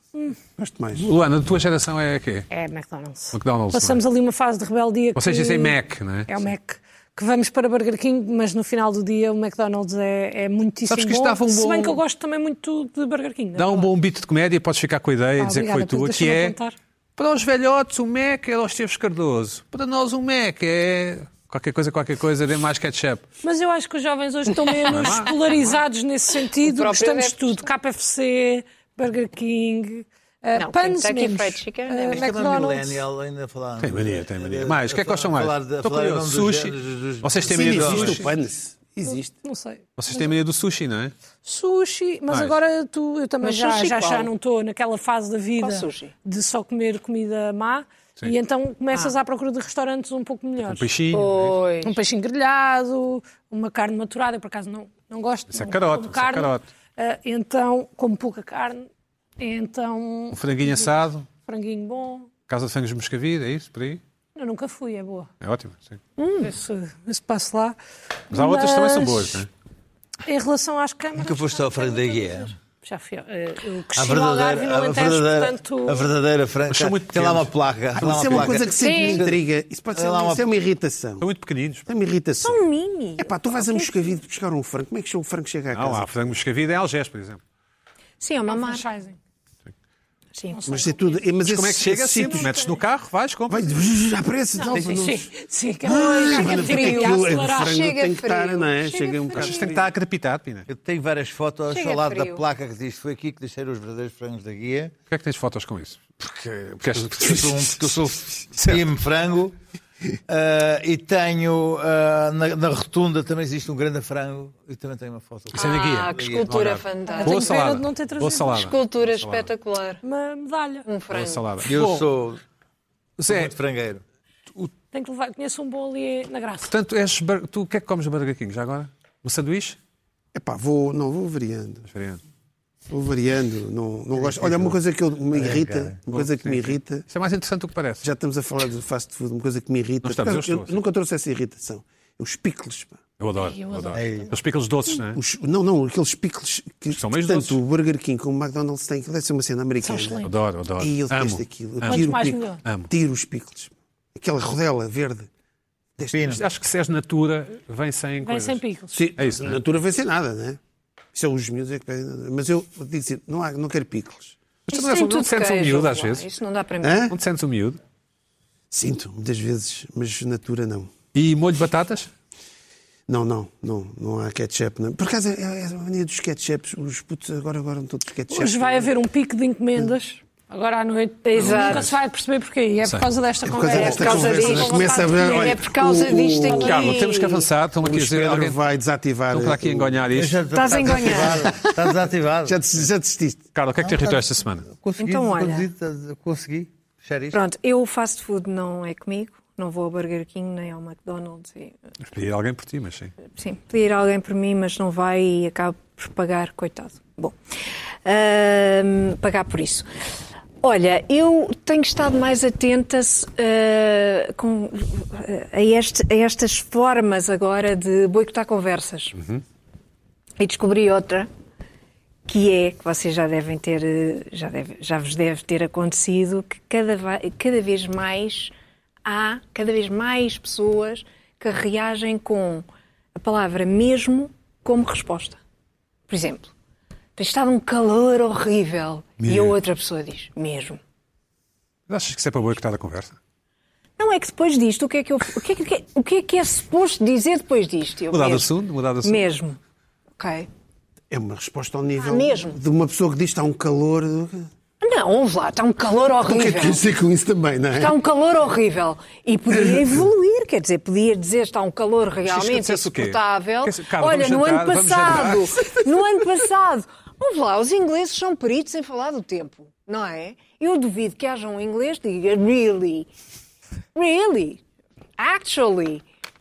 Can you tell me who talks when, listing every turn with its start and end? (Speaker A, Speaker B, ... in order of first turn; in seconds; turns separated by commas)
Speaker A: 0.6-1.1, Speaker B: 0.9-2.5, Speaker C: 2.5-13.9, Speaker B: 3.3-4.0, Speaker B: 5.2-6.5, Speaker B: 10.9-12.0, Speaker B: 13.6-16.5, Speaker C: 15.4-16.8, Speaker B: 17.2-23.3, Speaker C: 23.4-33.0, Speaker D: 24.9-25.2, Speaker B: 24.9-25.4, Speaker D: 26.6-27.7, Speaker D: 30.6-32.3, Speaker E: 32.1-38.3, Speaker B: 33.8-38.3, Speaker A: 37.5-39.4, Speaker C: 39.1-40.3, Speaker B: 40.0-41.1, Speaker C: 41.4-50.9, Speaker B: 42.3-42.5, Speaker D: 43.4-44.3, Speaker D: 45.6-46.1, Speaker B: 50.6-51.5, Speaker D: 51.1-52.0, Speaker C: 51.8-58.9, Speaker B: 55.5-56.6, Speaker C: 59.4-60.9, Speaker B: 60.3-61.3, Speaker C: 61.4-62.3, Speaker B: 62.5-64.0, Speaker C: 64.3-65.3, Speaker B: 65.4-66.0, Speaker D: 66.2-66.5, Speaker C: 66.4-67.8, Speaker C: 68.3-69.4, Speaker B: 68.3-69.5, Speaker C: 70.2-76.1, Speaker E: 71.1-72.5, Speaker E: 73.9-79.4, Speaker B: 76.7-78.5, Speaker A: 78.0-81.3, Speaker D: 78.8-79.2, Speaker E: 79.9-80.4, Speaker B: 81.2-81.9, Speaker A: 81.9-82.6, Speaker D: 82.4-84.2, Speaker A: 83.2-86.1, Speaker B: 85.7-87.4, Speaker D: 88.2-88.8, Speaker C: 88.5-89.2, Speaker D: 90.3-90.9, Speaker C: 90.5-91.2, Speaker A: 90.7-92.5, Speaker B: 91.4-93.7, Speaker D: 92.3-92.8, Speaker A: 93.5-95.3, Speaker C: 94.6-97.7, Speaker D: 95.8-99.7, Speaker A: 95.8-99.9, Speaker B: 99.3-100.7, Speaker E: 100.7-104.9, Speaker D: 101.7-102.4, Speaker B: 105.1-107.8, Speaker E: 106.9-109.5, Speaker B: 108.5-108.9, Speaker E: 110.3-116.8, Speaker B: 115.5-119.5, Speaker D: 115.5-117.5, Speaker C: 117.0-118.6, Speaker D: 118.5-120.0, Speaker C: 120.0-120.9, Speaker D: 120.8-121.4, Speaker B: 121.1-122.1, Speaker E: 121.6-122.4, Speaker B: 123.2-123.5, Speaker E: 123.3-124.0, Speaker C: 124.9-126.7, Speaker B: 126.7-129.8, Speaker A: 130.3-131.9, Speaker B: 131.9-132.2, Speaker A: 132.9-137.1, Speaker E: 134.2-134.8, Speaker E: 135.3-136.0, Speaker B: 136.1-138.1, Speaker A: 138.0-143.0, Speaker B: 140.0-140.8, Speaker B: 143.2-145.2, Speaker C: 143.4-144.3, Speaker E: 143.9-144.3, Speaker A: 145.1-150.2, Speaker B: 146.9-147.6, Speaker C: 149.8-150.3, Speaker B: 150.2-152.1, Speaker A: 150.8-155.3, Speaker C: 151.8-152.6, Speaker B: 152.6-152.9, Speaker A: 155.9-156.4, Speaker E: 156.1-156.4, Speaker B: 156.3-158.6, Speaker C: 158.2-159.1, Speaker A: 158.9-160.6, Speaker B: 159.2-159.6, Speaker A: 161.1-164.4, Speaker B: 164.7-166.3, Speaker D: 164.7-167.0, Speaker A: 166.8-167.2, Speaker B: 167.1-167.8, Speaker A: 168.7-170.9, Speaker B: 171.1-172.1, Speaker A: 173.1-178.9, Speaker C: 178.3-185.6, Speaker D: 181.2-181.9, Speaker B: 181.4-181.9, Speaker A: 183.4-186.9, Speaker D: 183.6-187.5, Speaker B: 186.5-188.6, Speaker A: 187.8-190.1, Speaker B: 189.3-191.2, Speaker E: 190.1-192.6, Speaker D: 190.5-191.5, Speaker A: 191.2-191.8, Speaker A: 192.4-193.4, Speaker B: 193.5-194.7, Speaker E: 193.8-197.4, Speaker D: 195.0-195.7, Speaker D: 197.3-201.7, Speaker B: 202.0-203.1, Speaker D: 203.3-207.4, Speaker D: 208.0-209.9, Speaker D: 210.6-219.2, Speaker D: 220.4-221.3, Speaker D: 222.3-228.5, Speaker D: 229.0-235.4, Speaker D: 236.1-236.5, Speaker D: 237.2-240.8, Speaker B: 239.2-239.6, Speaker B: 241.9-243.2, Speaker D: 244.0-248.5, Speaker B: 248.1-249.3, Speaker D: 249.0-249.6, Speaker D: 250.2-250.5, Speaker A: 251.1-254.5, Speaker D: 252.0-252.6, Speaker D: 254.8-256.8, Speaker A: 256.2-258.0, Speaker D: 257.7-273.1, Speaker B: 262.2-265.7, Speaker D: 273.9-274.6, Speaker D: 275.2-276.0